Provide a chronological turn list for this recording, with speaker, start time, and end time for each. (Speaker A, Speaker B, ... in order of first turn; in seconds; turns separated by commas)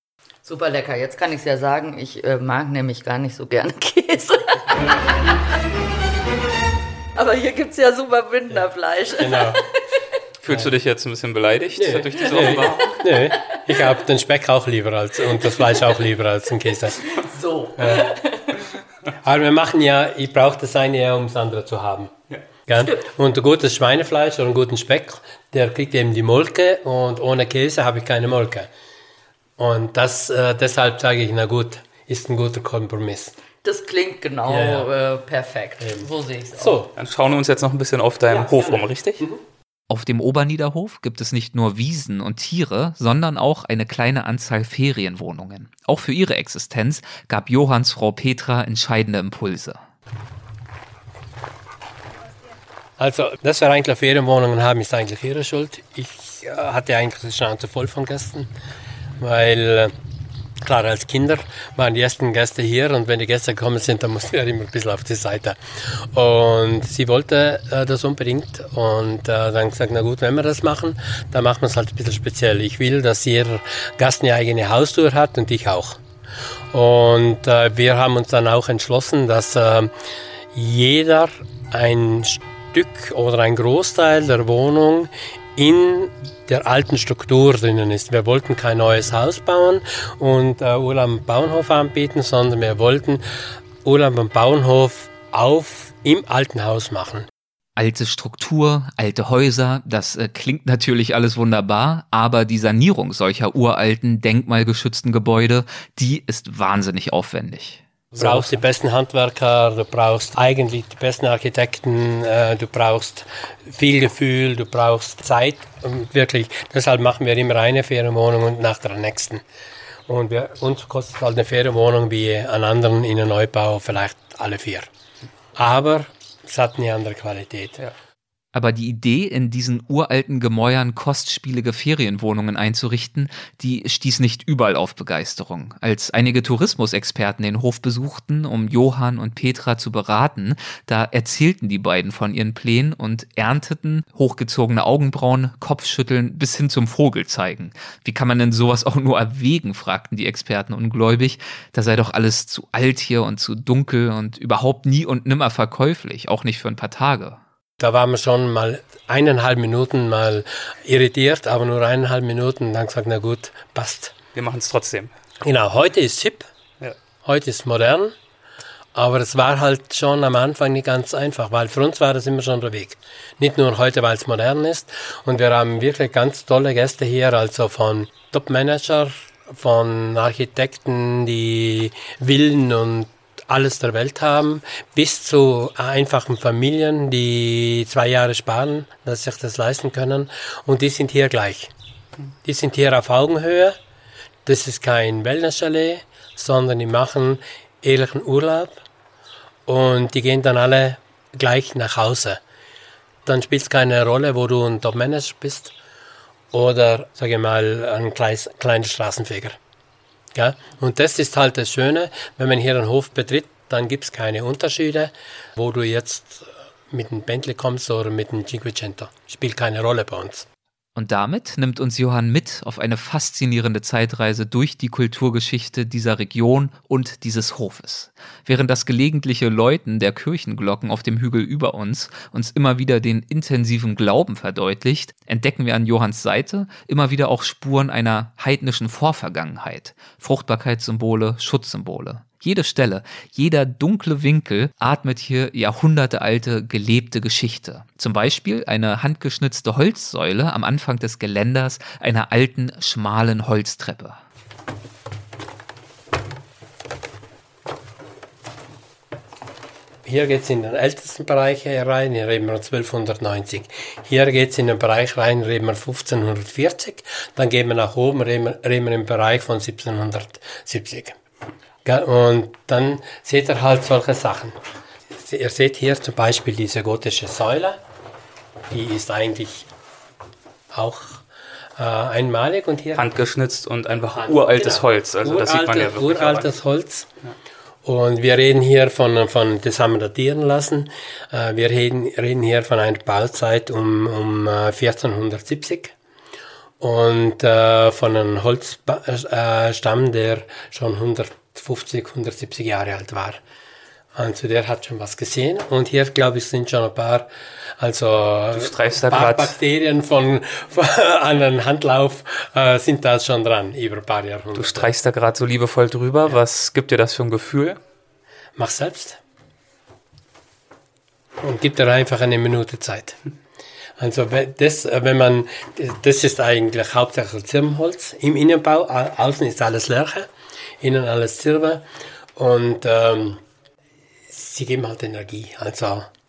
Speaker A: 0.5-5.0, Speaker A: 7.2-10.0, Speaker B: 9.1-9.6, Speaker C: 10.4-13.0, Speaker B: 11.8-17.1, Speaker A: 12.3-13.8, Speaker A: 17.1-18.7, Speaker B: 17.8-18.1, Speaker B: 19.2-22.1, Speaker B: 22.7-28.7, Speaker B: 29.6-33.4, Speaker A: 33.6-36.8, Speaker B: 34.5-34.9, Speaker B: 35.8-36.9, Speaker C: 37.0-39.2, Speaker B: 38.3-39.4, Speaker D: 39.9-49.8, Speaker B: 53.0-58.5, Speaker B: 59.2-59.9, Speaker B: 60.6-76.0, Speaker B: 76.7-79.9, Speaker B: 80.5-93.2, Speaker B: 93.8-97.3, Speaker D: 97.8-107.8, Speaker B: 108.2-119.4, Speaker B: 120.1-124.9, Speaker B: 125.5-127.8, Speaker D: 128.5-157.4, Speaker B: 157.8-164.2, Speaker C: 164.3-165.1, Speaker B: 165.4-166.5, Speaker B: 167.2-168.2, Speaker B: 168.9-191.7, Speaker B: 192.4-193.8, Speaker B: 194.5-198.8, Speaker B: 199.7-202.4, Speaker B: 203.3-205.7, Speaker B: 206.5-209.6, Speaker B: 210.3-220.5, Speaker D: 221.0-254.2, Speaker B: 260.1-271.2, Speaker B: 271.9-274.6, Speaker B: 275.1-277.8, Speaker B: 278.7-279.7, Speaker B: 280.7-281.2, Speaker B: 281.8-283.1, Speaker C: 282.9-286.6, Speaker B: 284.1-287.1, Speaker B: 287.8-295.9, Speaker B: 296.8-303.4, Speaker B: 304.1-314.9, Speaker C: 308.5-309.6, Speaker C: 314.6-317.8, Speaker B: 318.6-319.2, Speaker B: 321.4-323.2, Speaker B: 324.0-330.3, Speaker B: 330.8-333.4, Speaker B: 334.3-336.1